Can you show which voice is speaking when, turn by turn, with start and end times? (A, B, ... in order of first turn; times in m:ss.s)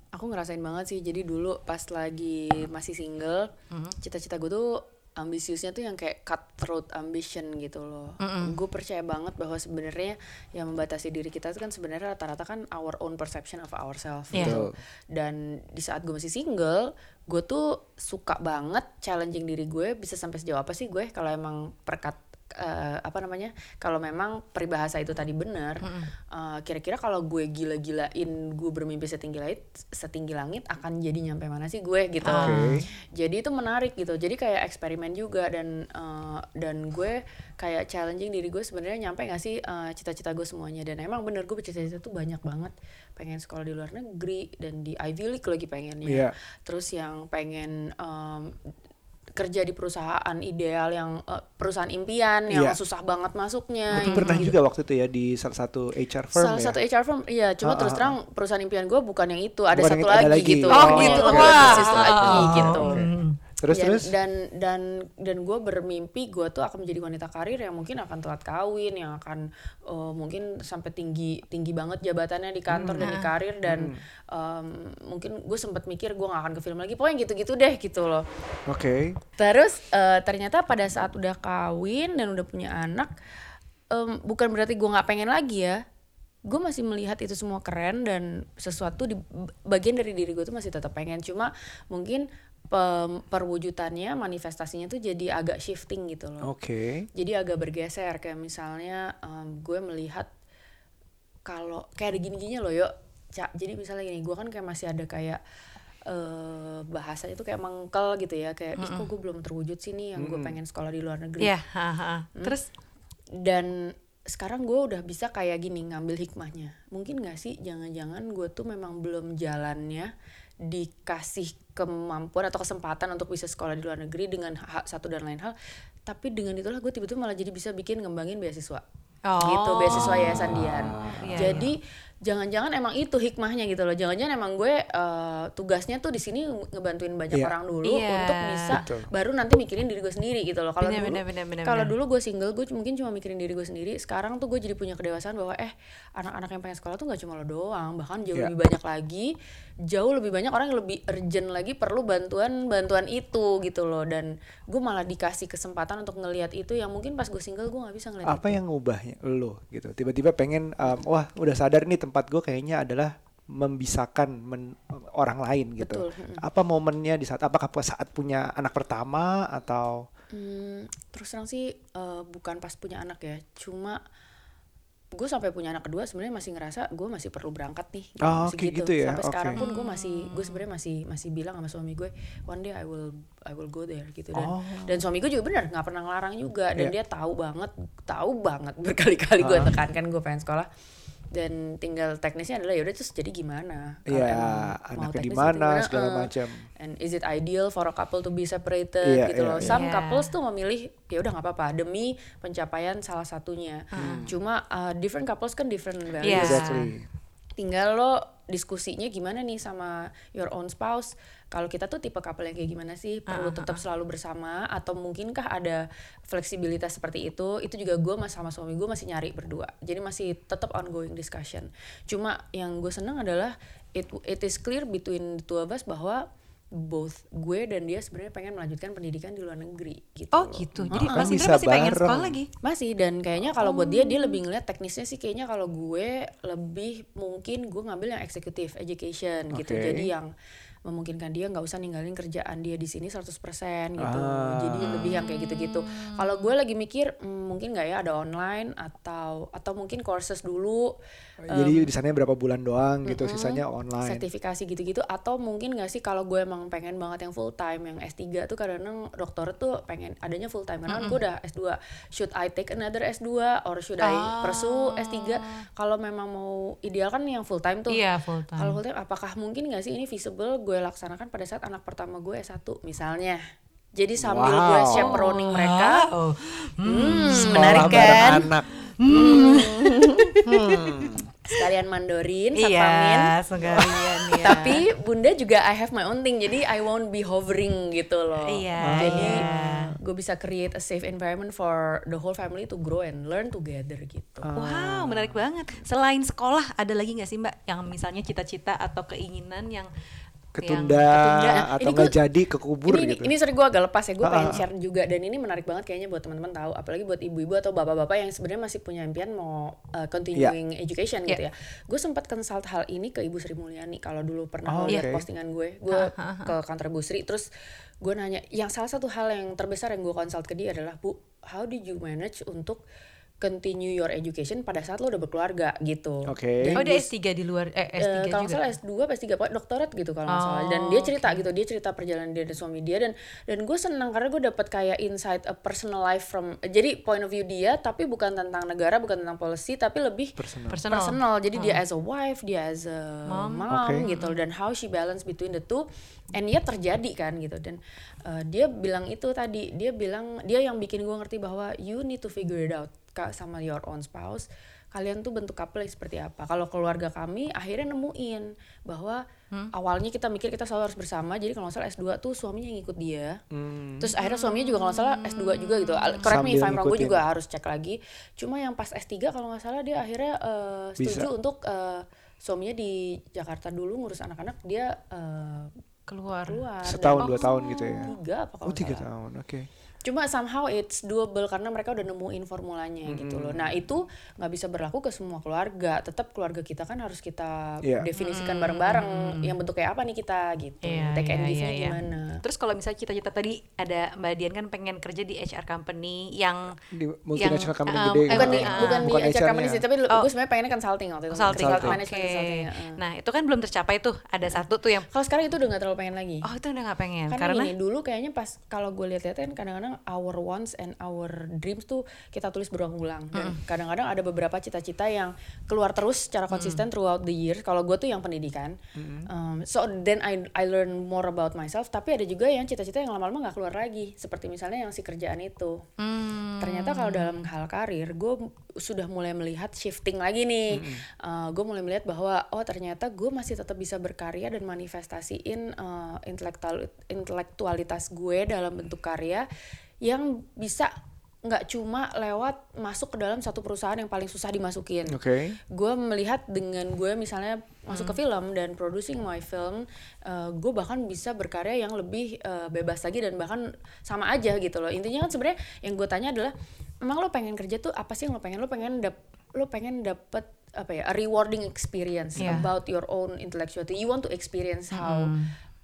0:00.1-0:48.6 A
0:03.7-0:04.0 B
0:08.2-0:08.6 B
0:14.3-0:14.8 C
0:14.3-0:14.6 B
0:25.8-0:26.1 B
0:32.3-0:32.8 B
0:32.3-0:32.8 C
0:46.1-0:46.4 C
0:49.4-0:54.6 A
0:52.5-0:52.8 C
0:53.9-0:56.8 C
0:54.0-0:54.5 B
0:56.4-1:03.1 A
0:57.6-0:58.2 C
0:59.7-1:03.1 C
1:00.7-1:03.4 B
1:03.6-1:04.1 C
1:03.7-1:18.3 A
1:12.7-1:13.1 C
1:13.0-1:13.3 B
1:13.6-1:14.0 C
1:18.7-1:19.2 C
1:19.4-1:23.1 A
1:23.9-1:25.8 A
1:26.5-1:36.5 A
1:36.4-1:37.1 C
1:37.2-1:40.3 A
1:41.5-1:45.4 A
1:46.1-1:51.5 A
1:48.8-1:49.1 B
1:50.2-1:50.6 C
1:51.4-1:52.7 B
1:53.4-2:00.1 A
2:00.6-2:08.8 A
2:09.3-2:11.7 B
2:09.4-2:29.3 A
2:09.9-2:11.6 C
2:17.8-2:18.8 B
2:18.7-2:19.1 C
2:20.8-2:21.9 B
2:29.9-2:38.6 A
2:38.3-2:50.1 C
2:45.8-2:46.4 A
2:50.3-2:54.0 A
2:55.2-3:10.7 A
2:58.2-2:59.6 C
2:59.6-3:00.6 B
3:04.4-3:05.0 C
3:09.4-3:09.7 C
3:11.3-3:16.3 A
3:14.1-3:16.7 C
3:16.8-3:26.7 A
3:19.0-3:19.8 C
3:19.6-3:20.3 B
3:23.9-3:24.3 B
3:24.0-3:24.4 C
3:26.2-3:26.9 B
3:26.3-3:27.0 C
3:27.6-3:46.2 A
3:33.3-3:33.8 B
3:46.7-3:51.3 A
3:50.3-3:52.5 B
3:50.8-3:52.4 C
3:52.6-4:00.3 A
3:53.6-3:54.4 B
3:59.5-4:00.1 C
4:00.9-4:10.9 A
4:04.0-4:05.2 C
4:04.8-4:06.4 B
4:11.4-4:14.2 C
4:11.5-4:11.9 A
4:13.1-4:28.0 A
4:20.9-4:21.2 B
4:24.0-4:25.5 B
4:27.9-4:28.8 B
4:28.6-4:33.4 A
4:34.0-4:36.1 A
4:34.2-4:35.2 C
4:35.0-4:41.2 B
4:36.8-4:38.5 A
4:37.3-4:38.7 C
4:39.1-4:40.4 A
4:40.4-4:41.3 C
4:41.4-4:54.5 A
4:42.6-4:44.9 B
4:48.4-4:49.9 B
4:48.8-4:49.9 C
4:54.4-4:55.4 C
4:54.6-4:59.9 B
5:00.6-5:03.3 C
5:00.6-5:01.2 B
5:01.1-5:02.2 A
5:02.9-5:17.5 A
5:04.2-5:04.6 C
5:14.7-5:15.2 C
5:15.9-5:16.5 B
5:18.0-5:22.8 A
5:23.4-5:27.1 A
5:26.3-5:26.8 C
5:26.7-5:28.7 B
5:28.0-5:40.4 A
5:30.3-5:31.4 B
5:40.4-5:40.8 C
5:40.7-5:41.8 B
5:40.9-6:03.4 A
5:43.3-5:44.4 B
5:43.7-5:44.0 C
6:03.5-6:04.1 C
6:04.0-6:15.8 A
6:04.2-6:06.4 B
6:06.2-6:07.2 C
6:11.0-6:11.3 C
6:16.1-6:16.6 B
6:16.5-6:19.1 A
6:16.8-6:18.1 C
6:17.2-6:18.2 B
6:18.6-6:19.7 C
6:20.0-6:32.4 A
6:23.1-6:23.8 C
6:28.2-6:29.6 B
6:30.8-6:36.8 B
6:36.9-6:39.8 C
6:37.4-6:39.1 B
6:38.3-6:43.0 A
6:41.3-6:45.1 B
6:41.5-6:42.0 C
6:44.5-6:46.5 A
6:46.4-6:47.7 B
6:47.3-7:05.8 A
6:53.3-6:53.6 B
6:56.5-6:56.8 B
6:59.0-6:59.3 C
7:06.0-7:07.5 B
7:06.6-7:19.5 A
7:10.7-7:11.0 C
7:20.0-7:20.9 A
7:21.4-7:45.3 A
7:25.1-7:25.6 C
7:27.9-7:28.2 B
7:42.4-7:42.7 B
7:44.9-7:45.5 B